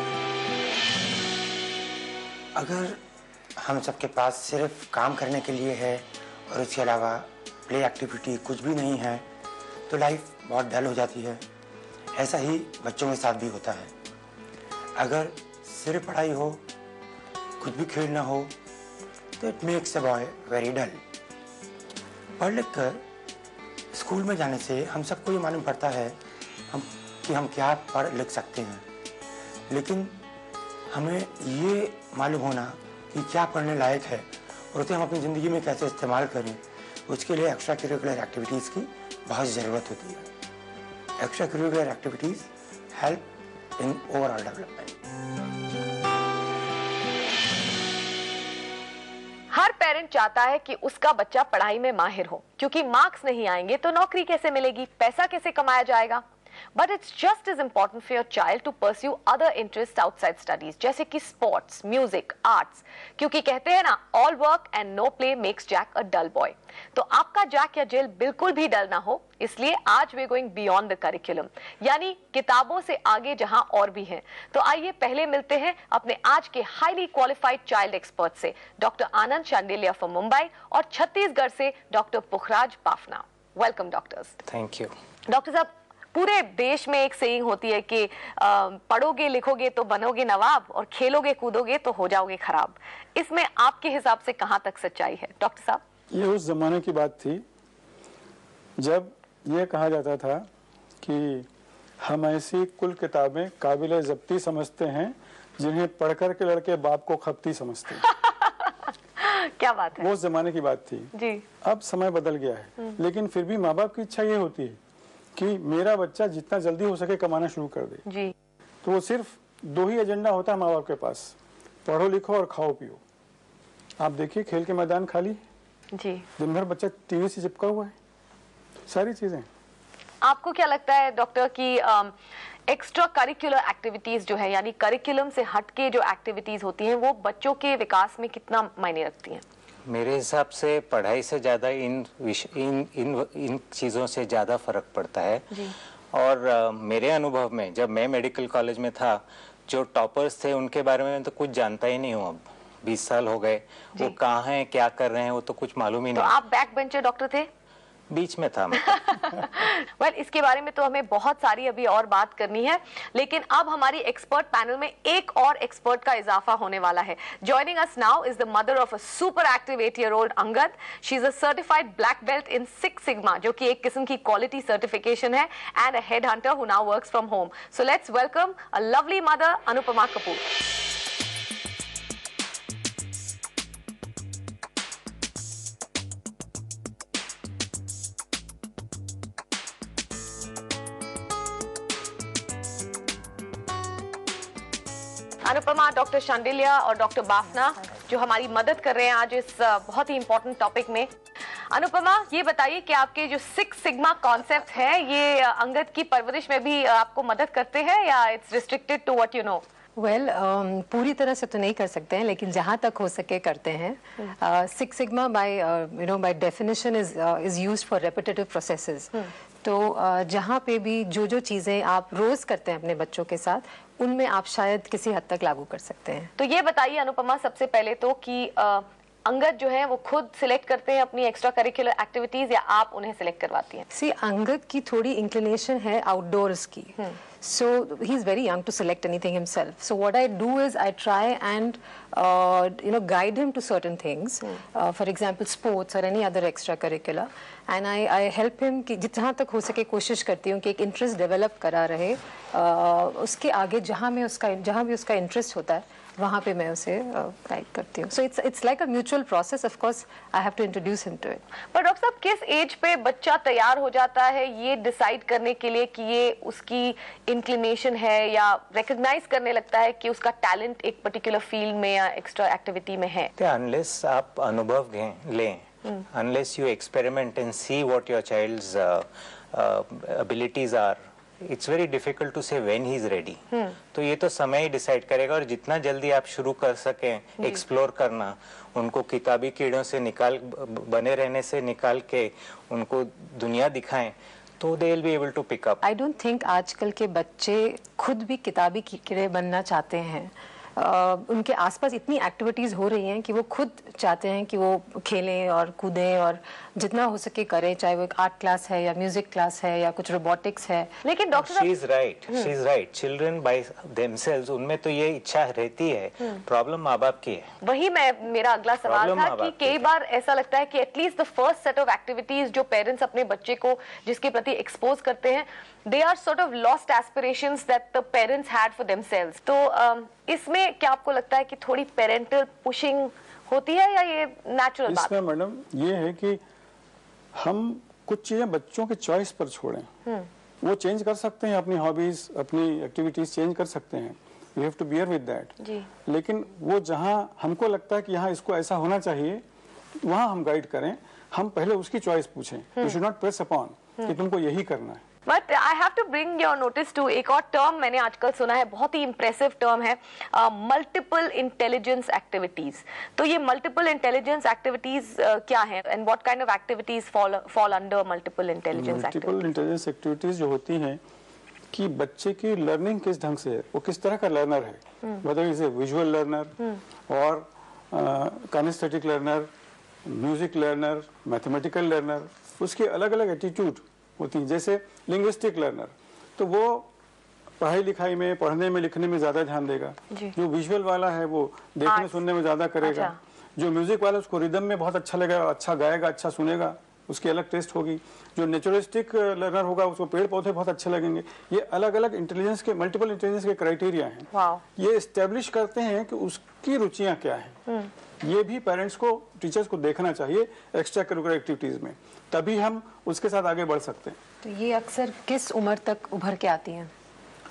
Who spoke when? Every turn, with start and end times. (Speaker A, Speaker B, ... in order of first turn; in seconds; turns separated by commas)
Speaker A: 2.5-3.0, Speaker A: 3.6-9.2, Speaker A: 9.9-11.4, Speaker A: 12.1-13.9, Speaker A: 14.9-16.6, Speaker A: 17.6-18.5, Speaker A: 19.4-21.0, Speaker A: 22.4-23.0, Speaker A: 23.9-26.2, Speaker A: 26.7-28.9, Speaker A: 29.7-30.2, Speaker A: 30.9-40.3, Speaker A: 41.2-43.2, Speaker A: 43.8-44.9, Speaker B: 49.5-56.2, Speaker B: 56.8-84.3, Speaker C: 84.5-84.9, Speaker B: 85.3-95.8, Speaker D: 96.1-97.4, Speaker D: 98.8-100.5, Speaker D: 101.0-101.5, Speaker D: 102.0-108.0, Speaker B: 108.0-110.1, Speaker D: 110.0-111.1, Speaker B: 111.1-111.4, Speaker D: 111.6-114.8, Speaker D: 115.3-118.0, Speaker B: 118.1-118.3, Speaker D: 118.8-123.0, Speaker D: 124.0-125.4, Speaker B: 125.9-126.2, Speaker D: 126.4-127.9, Speaker D: 128.9-129.5, Speaker B: 130.2-132.2, Speaker B: 132.7-139.4, Speaker C: 139.9-156.3, Speaker B: 156.1-157.5, Speaker C: 158.1-159.4, Speaker B: 159.0-180.4, Speaker B: 195.4-201.1, Speaker B: 201.7-209.6, Speaker E: 210.0-226.3, Speaker B: 226.4-233.8, Speaker E: 233.9-261.4, Speaker B: 261.7-273.3, Speaker C: 273.4-295.8, Speaker E: 295.8-310.9, Speaker B: 311.0-311.7, Speaker C: 311.3-317.5, Speaker B: 317.6-335.1, Speaker C: 318.8-319.9, Speaker D: 334.9-336.4, Speaker D: 337.3-339.9, Speaker D: 340.6-349.4, Speaker B: 345.6-345.9, Speaker D: 350.0-355.0, Speaker B: 355.3-369.5, Speaker D: 368.7-371.0, Speaker D: 371.7-379.5, Speaker D: 380.1-386.9, Speaker D: 387.6-407.6, Speaker B: 391.8-392.2, Speaker B: 392.8-393.1, Speaker B: 404.3-404.6, Speaker D: 408.2-414.2, Speaker E: 414.4-416.9